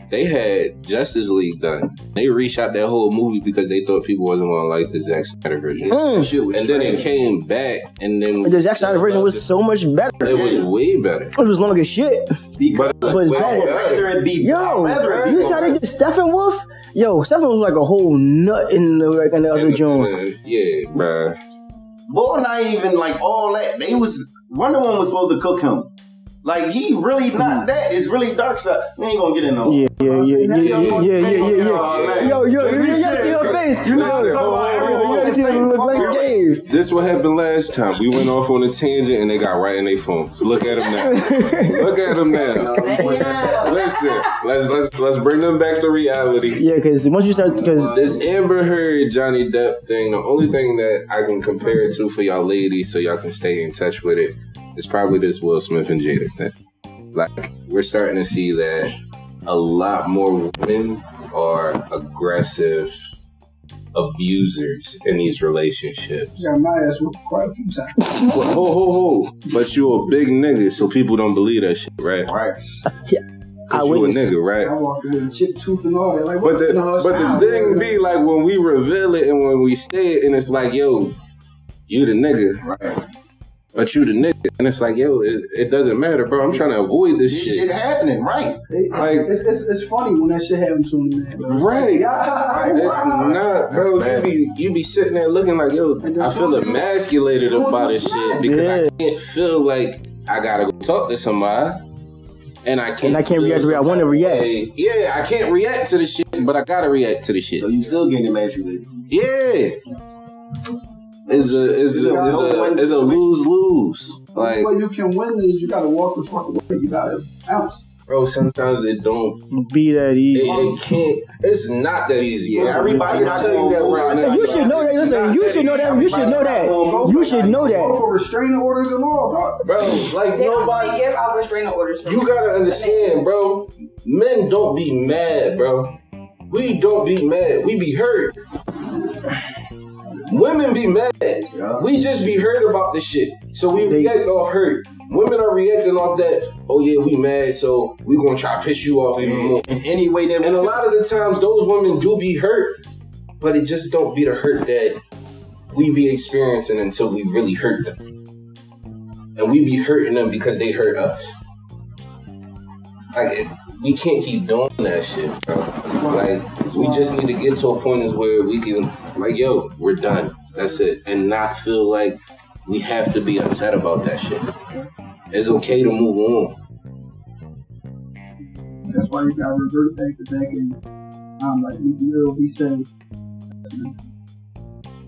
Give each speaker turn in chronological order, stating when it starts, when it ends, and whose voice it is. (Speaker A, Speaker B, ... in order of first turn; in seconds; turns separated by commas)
Speaker A: 0.1-9.5, Speaker B: 5.9-6.3, Speaker C: 5.9-7.1, Speaker B: 8.4-10.4, Speaker A: 10.2-11.4, Speaker C: 10.2-10.7, Speaker B: 11.3-12.4, Speaker C: 12.6-15.8, Speaker A: 12.7-14.2, Speaker B: 13.0-13.9, Speaker B: 14.4-20.2, Speaker A: 14.9-15.8, Speaker A: 19.5-21.4, Speaker C: 22.1-25.9, Speaker C: 26.4-29.9, Speaker B: 27.4-27.6, Speaker B: 29.6-36.7, Speaker D: 30.0-32.1, Speaker C: 30.6-36.4, Speaker A: 30.6-46.6, Speaker B: 40.9-43.0, Speaker C: 42.5-43.8, Speaker E: 42.6-44.3, Speaker B: 46.6-48.0, Speaker C: 47.4-48.3, Speaker A: 47.9-56.5, Speaker A: 57.1-63.0, Speaker A: 63.9-66.5, Speaker D: 66.4-68.2, Speaker A: 68.3-72.3, Speaker C: 72.2-72.6, Speaker B: 73.1-74.3, Speaker A: 73.7-74.7, Speaker D: 74.6-78.0, Speaker A: 76.4-81.2, Speaker A: 81.9-82.7, Speaker C: 82.6-83.0, Speaker A: 83.7-87.7, Speaker C: 87.2-88.6, Speaker D: 88.7-93.4, Speaker A: 88.9-89.3, Speaker A: 91.4-101.8, Speaker C: 92.5-94.3, Speaker D: 96.0-98.5, Speaker B: 98.4-98.9, Speaker A: 102.6-108.0, Speaker B: 103.0-104.5, Speaker C: 107.6-109.0, Speaker A: 109.1-109.8, Speaker A: 111.3-114.7, Speaker C: 111.3-113.4, Speaker D: 111.9-112.7, Speaker D: 114.3-117.8, Speaker A: 118.1-119.4, Speaker B: 119.5-120.8, Speaker A: 120.3-127.1, Speaker C: 122.5-127.3, Speaker B: 122.7-123.2, Speaker B: 124.2-128.0, Speaker D: 126.6-129.7, Speaker A: 129.6-131.1, Speaker E: 130.2-133.3, Speaker A: 132.0-135.9, Speaker A: 136.5-138.4, Speaker A: 140.3-152.8, Speaker C: 141.5-142.0, Speaker B: 143.9-144.2, Speaker C: 149.2-150.8, Speaker A: 153.4-155.0, Speaker A: 155.7-158.0, Speaker A: 159.4-161.3, Speaker A: 163.1-174.6, Speaker D: 165.9-167.3, Speaker A: 175.3-176.6, Speaker D: 178.8-180.8, Speaker D: 181.4-182.9, Speaker D: 183.6-184.0